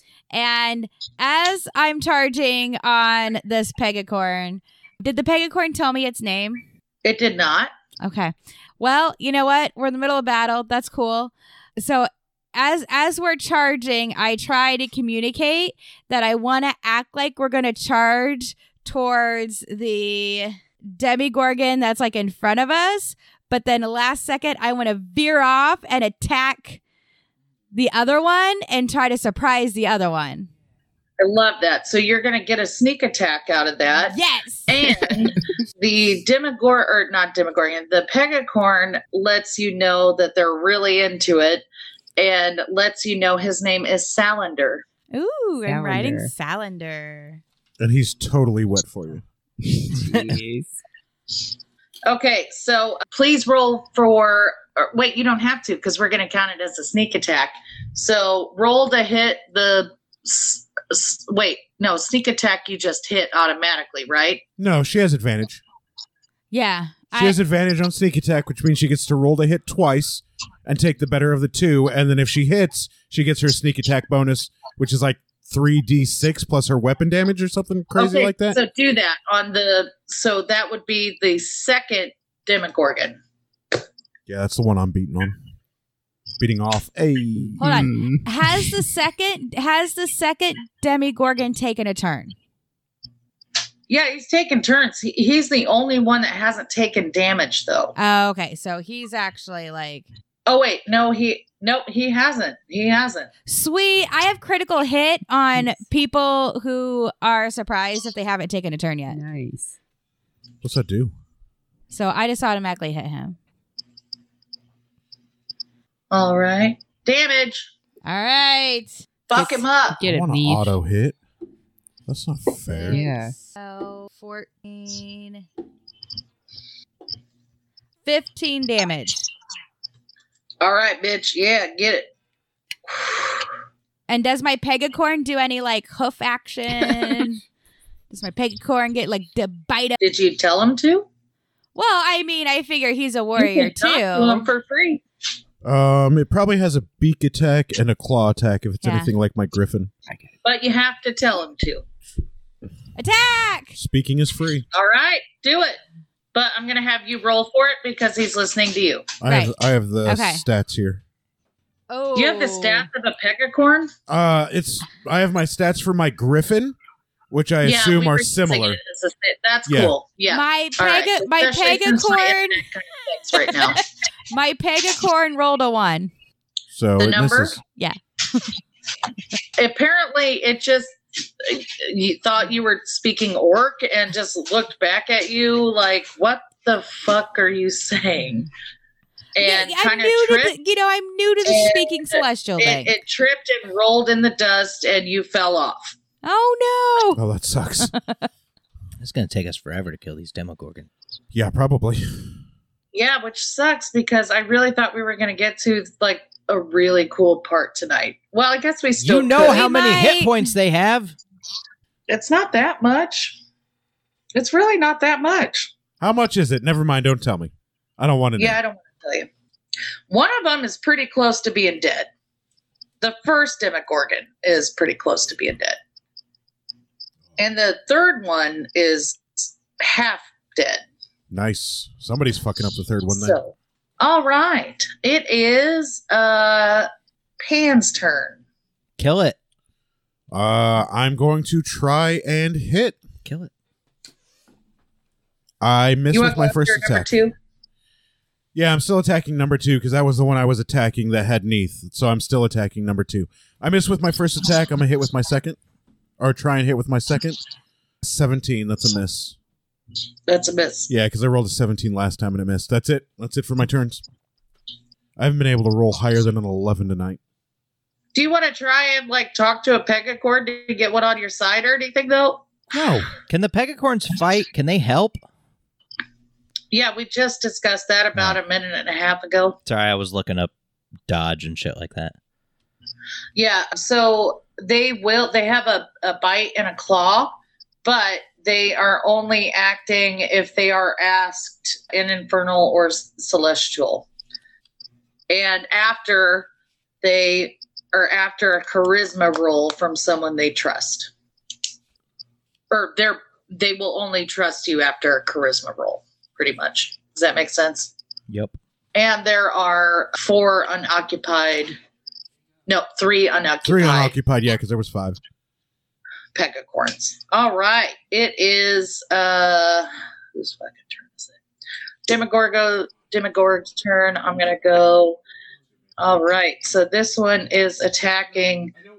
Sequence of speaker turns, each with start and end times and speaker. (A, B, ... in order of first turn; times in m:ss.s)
0:00.3-0:06.6 A
0:07.0-0:07.7 B
0:08.0-0:26.8 A
0:27.7-0:30.5 A
0:31.2-0:41.6 B
0:34.1-0:35.1 A
0:42.2-0:44.8 B
0:45.1-0:47.4 A
0:45.7-0:46.3 C
0:47.8-0:49.2 D
0:49.6-0:50.8 C
0:50.0-0:50.3 E
0:52.0-1:04.4 B
1:04.6-1:05.6 D
1:06.5-1:07.4 A
1:07.1-1:18.6 D
1:17.9-1:23.2 B
1:24.3-1:25.4 D
1:26.4-1:27.6 D
1:27.6-1:28.7 C
1:27.6-1:32.3 A
1:33.9-1:37.9 B
1:38.0-1:40.1 A
1:40.4-1:43.3 B
1:43.4-1:49.2 A
1:49.1-1:49.8 C
1:50.6-1:51.1 D
1:51.9-1:53.4 A
1:56.1-1:57.7 B
1:58.0-1:59.6 A
1:59.3-2:00.0 B
2:00.0-2:00.7 C
2:00.0-2:01.2 D
2:02.1-2:03.0 D
2:02.7-2:05.4 A
2:02.9-2:03.3 C
2:08.0-2:09.2 A
2:10.6-2:12.1 B
2:12.9-2:13.5 B
2:14.1-2:17.4 A
2:18.1-2:20.0 A
2:20.0-2:21.1 B
2:21.7-2:24.5 A
2:23.4-2:25.0 B
2:25.6-2:29.9 D
2:28.8-2:29.1 A
2:30.4-2:31.8 B
2:33.0-2:33.8 A
2:33.8-2:34.6 D
2:34.7-2:35.8 B
2:36.3-2:39.1 B
2:39.2-2:41.0 D
2:39.2-2:39.5 A
2:40.0-2:40.4 A
2:41.9-2:42.9 A
2:42.1-2:43.9 B
2:44.1-2:46.8 D
2:47.3-2:48.8 D
2:47.6-2:53.8 B
2:49.7-2:49.9 D
2:50.3-2:52.6 A
2:53.3-2:53.8 A
2:54.3-2:56.1 A
2:56.7-2:57.6 D
2:57.0-2:57.6 B
2:57.8-2:58.4 A
2:59.6-3:08.5 B
3:09.4-3:10.5 B
3:09.4-3:12.9 A
3:11.4-3:16.0 B
3:16.2-3:17.2 A
3:17.2-3:17.9 D
3:19.0-3:20.9 E
3:21.3-3:22.3 D
3:22.9-3:29.6 B
3:29.0-3:31.2 E
3:29.4-3:30.5 A
3:32.1-3:33.4 B
3:34.3-3:35.7 B
3:36.0-3:38.6 D
3:38.4-3:39.3 B
3:40.1-3:42.1 B
3:43.0-3:45.8 B
3:47.4-3:50.8 B
3:51.3-3:53.4 D
3:53.1-3:56.9 B
3:57.4-3:58.4 B
3:59.0-3:59.4 E
4:00.3-4:03.0 D
4:03.2-4:03.5 E
4:05.6-4:07.1 D
4:06.1-4:07.3 B
4:08.5-4:15.6 D
4:16.2-4:17.4 D
4:18.0-4:19.3 D
4:20.3-4:20.9 B
4:20.9-4:24.0 D
4:25.2-4:27.2 D
4:28.1-4:32.6 B
4:32.7-4:33.1 D
4:33.3-4:35.2 E
4:36.7-4:39.6 B
4:38.1-4:38.4 E
4:39.6-4:40.5 E
4:41.1-4:42.1 E
4:43.3-4:54.1 B
4:55.3-4:56.5 B
4:57.0-5:01.1 B
5:02.7-5:07.9 B
5:08.3-5:08.5 E
5:08.9-5:11.8 B
5:12.7-5:14.1 B
5:13.6-5:15.2 D
5:16.3-5:21.3 B
5:22.1-5:25.2 B
5:26.0-5:28.7 B